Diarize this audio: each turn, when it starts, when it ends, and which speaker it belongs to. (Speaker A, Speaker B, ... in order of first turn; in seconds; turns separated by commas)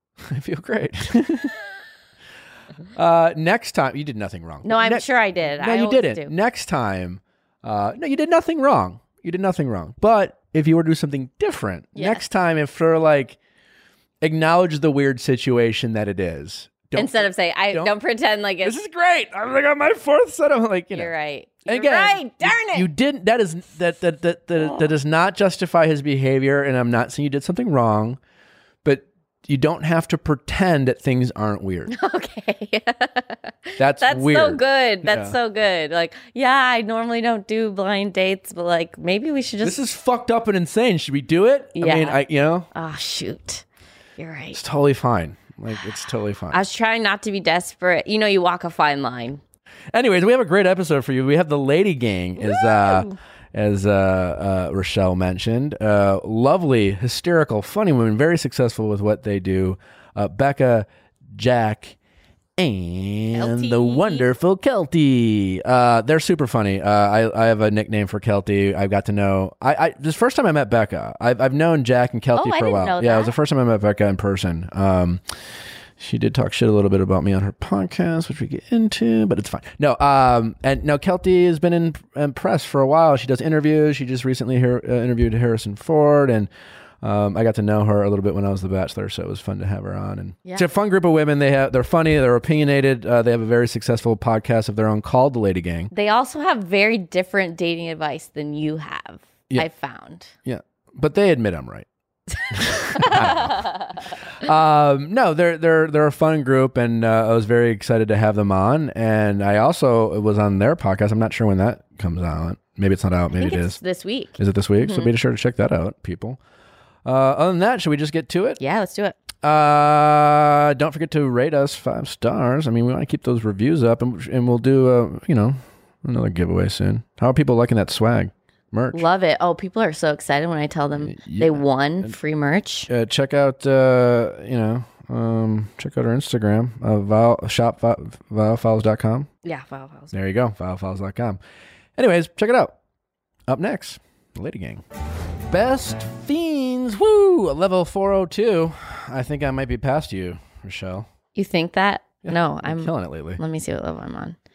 Speaker A: 0.2-1.5, Speaker A: 2.9-13.4, Speaker B: 4.6-6.3, Speaker B: 11.9-12.2, Speaker A: 14.2-17.9, Speaker B: 16.9-18.8, Speaker A: 18.6-21.1, Speaker B: 20.9-22.9, Speaker A: 21.6-28.2, Speaker B: 24.6-24.9, Speaker A: 28.8-31.9, Speaker B: 31.9-39.8, Speaker A: 33.8-35.3, Speaker A: 39.6-42.7, Speaker B: 41.8-42.2, Speaker B: 42.7-43.6, Speaker B: 44.2-44.6, Speaker A: 44.5-46.6, Speaker B: 46.5-49.4, Speaker A: 49.9-62.0, Speaker B: 52.5-53.1, Speaker A: 62.6-75.2, Speaker B: 63.3-64.2, Speaker B: 72.3-73.3, Speaker A: 76.0-86.5, Speaker A: 87.0-95.9, Speaker B: 95.9-100.3, Speaker A: 100.5-101.9, Speaker A: 102.5-103.7, Speaker B: 102.9-104.0, Speaker A: 104.3-113.8, Speaker B: 113.3-115.1, Speaker A: 114.4-116.4, Speaker A: 117.0-118.6, Speaker B: 118.6-119.2, Speaker A: 119.4-129.0, Speaker B: 128.9-132.9, Speaker A: 131.0-132.1, Speaker A: 132.9-139.3, Speaker B: 139.4-140.1, Speaker A: 140.1-141.4, Speaker A: 142.0-142.7, Speaker A: 143.5-144.8, Speaker A: 145.5-151.1, Speaker B: 151.3-154.3, Speaker A: 152.2-153.4